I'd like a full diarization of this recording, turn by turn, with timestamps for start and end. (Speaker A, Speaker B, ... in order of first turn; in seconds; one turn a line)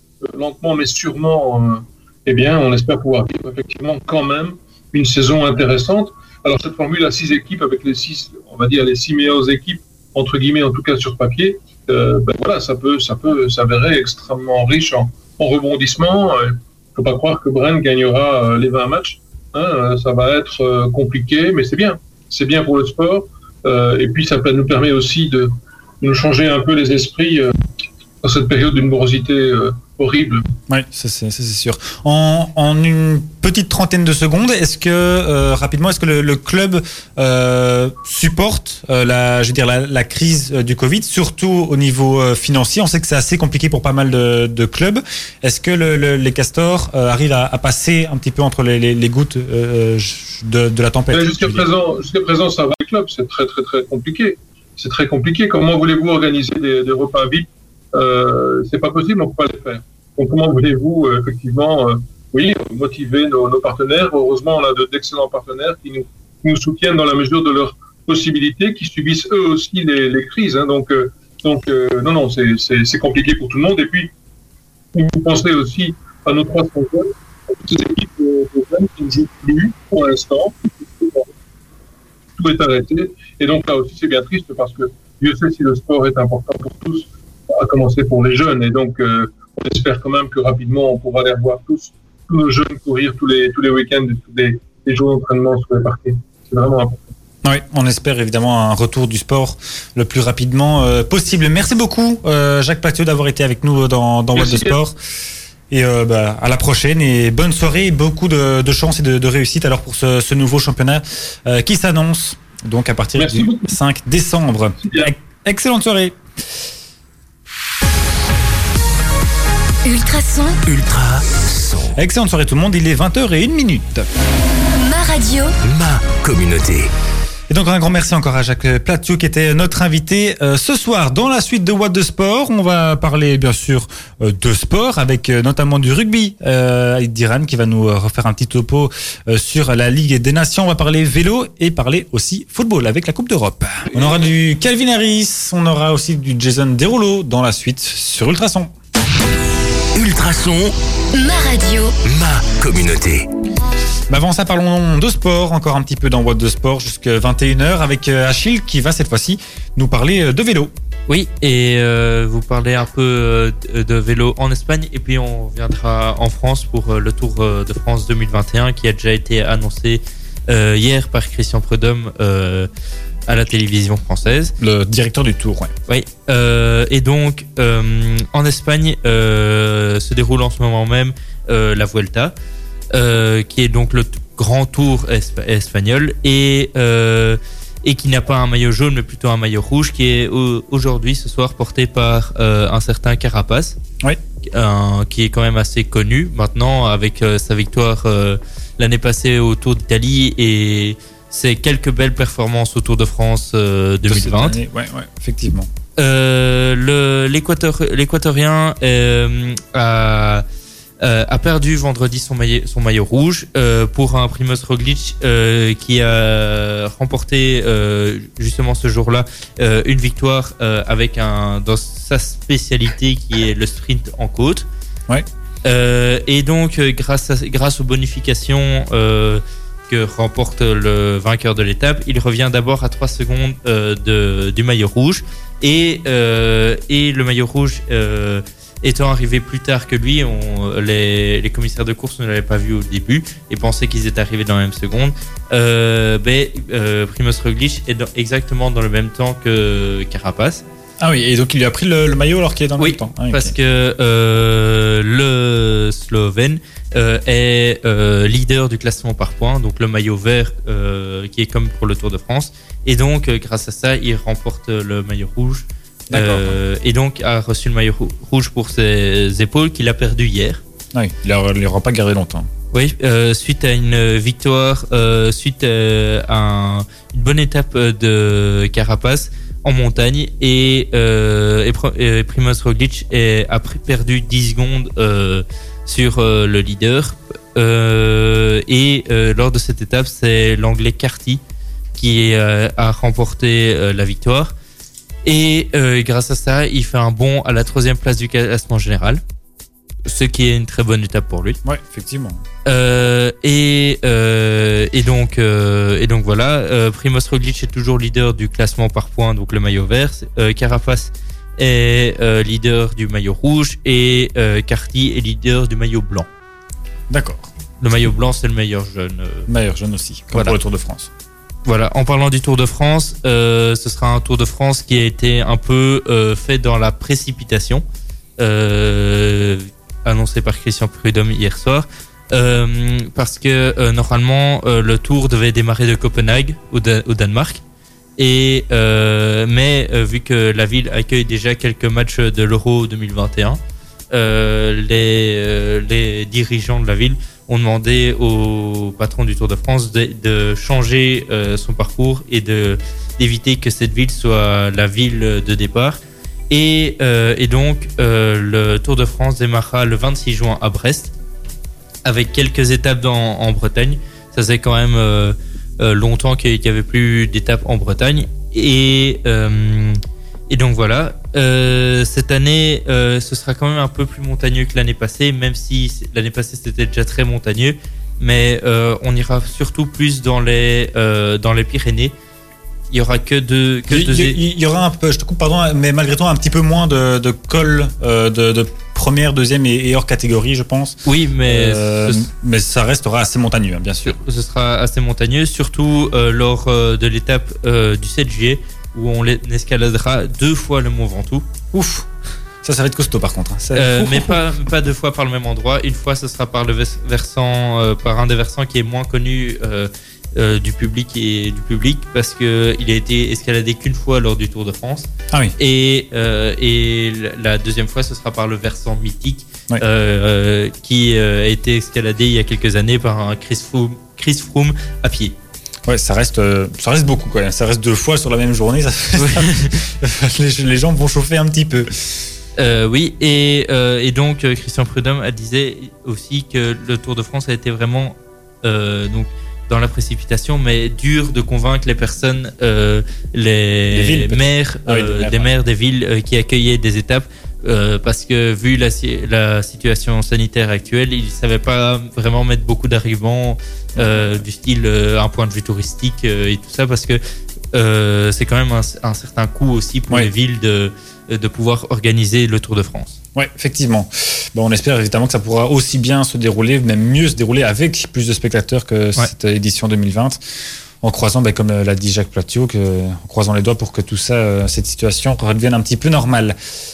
Speaker A: 0.2-27.5
Speaker A: 28.2-30.4
Speaker B: 30.7-51.6
Speaker A: 51.1-74.1
Speaker A: 74.9-81.3
Speaker A: 82.4-97.1
Speaker B: 97.4-105.0
Speaker A: 104.3-104.8
Speaker B: 105.7-116.2
Speaker A: 113.2-113.7
Speaker A: 114.8-115.1
Speaker C: 119.8-120.6
Speaker D: 120.7-122.0
Speaker B: 122.0-124.1
Speaker C: 124.7-125.5
Speaker D: 125.6-126.9
Speaker B: 127.5-148.7
Speaker D: 149.9-150.7
Speaker C: 151.1-152.0
Speaker D: 152.0-153.3
Speaker B: 154.1-160.7
Speaker E: 161.1-172.7
Speaker E: 173.3-174.5
Speaker B: 174.6-175.7
Speaker E: 175.9-182.3
Speaker E: 182.9-193.8
Speaker E: 194.5-204.6
Speaker B: 204.1-205.7
Speaker E: 206.0-210.4
Speaker E: 211.0-224.7
Speaker E: 225.7-250.6
Speaker B: 251.0-253.5
Speaker E: 252.8-270.6
Speaker B: 266.1-266.6
Speaker B: 270.9-272.5
Speaker E: 272.7-291.4
Speaker E: 292.0-294.5
Speaker E: 295.2-299.2
Speaker E: 300.1-301.6
Speaker B: 301.6-302.4
Speaker E: 302.7-316.3
Speaker B: 317.1-317.5
Speaker E: 317.8-319.5
Speaker B: 319.5-321.1
Speaker E: 321.7-327.8
Speaker E: 328.4-337.6
Speaker E: 338.2-343.6
Speaker E: 344.1-356.0
Speaker E: 356.5-361.1
Speaker E: 362.1-382.1
Speaker E: 382.9-384.4
Speaker B: 383.9-394.2
Speaker E: 391.1-392.2
Speaker E: 394.1-401.4
Speaker B: 401.7-402.1
Speaker B: 402.6-404.4
Speaker E: 403.7-425.4
Speaker B: 425.9-431.9
Speaker E: 429.2-429.7
Speaker E: 432.6-457.2
Speaker B: 443.9-445.5
Speaker B: 454.0-454.4
Speaker E: 457.7-463.2
Speaker B: 463.4-470.4
Speaker B: 471.0-476.6